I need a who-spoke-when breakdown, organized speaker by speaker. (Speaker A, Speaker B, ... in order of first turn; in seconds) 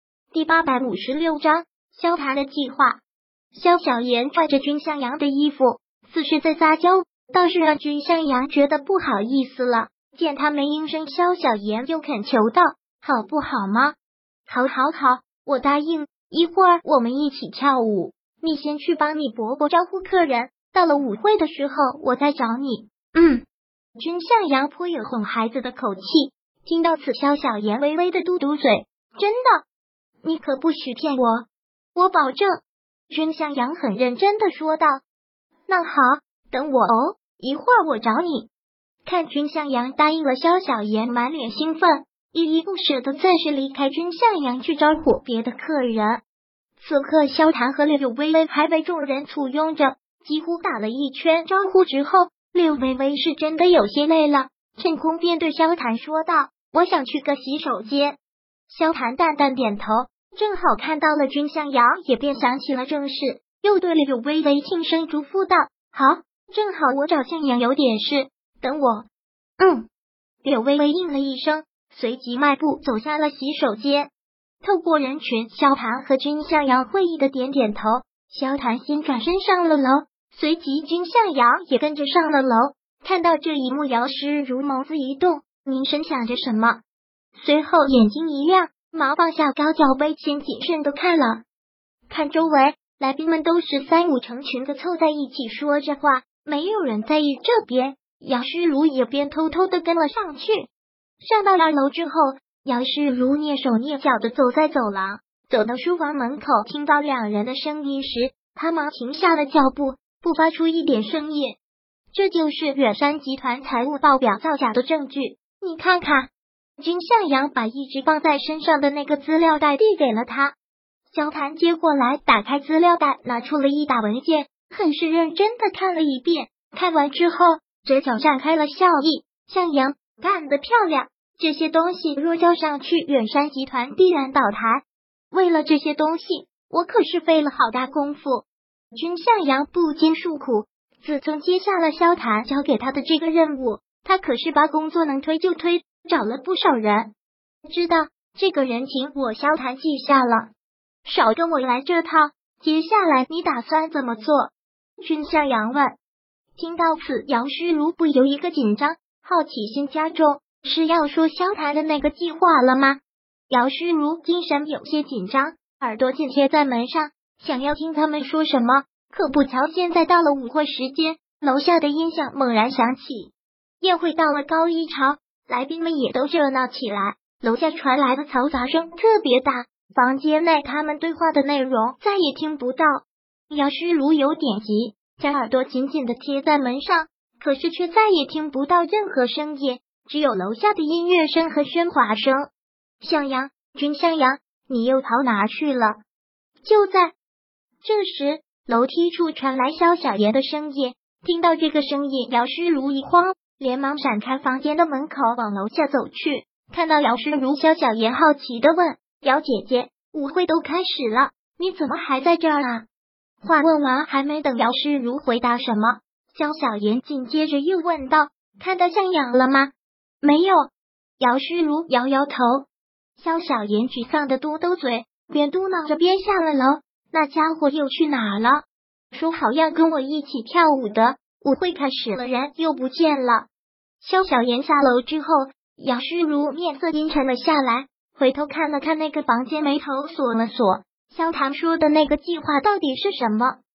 Speaker A: 0.3-3.0, 3.5-14.0, 14.5-23.4, 24.0-29.6, 30.2-35.0, 35.7-38.5, 39.0-46.2, 46.8-58.2, 58.7-69.1, 69.6-69.9, 70.4-74.1, 74.6-86.8, 87.3-91.4, 92.1-100.7, 101.2-111.6, 112.1-120.5, 121.1-147.1, 147.7-150.5, 151.1-156.0, 156.6-192.5, 193.0-196.0, 196.6-197.1, 197.8-212.9, 213.4-222.7, 223.2-233.5, 234.0-243.6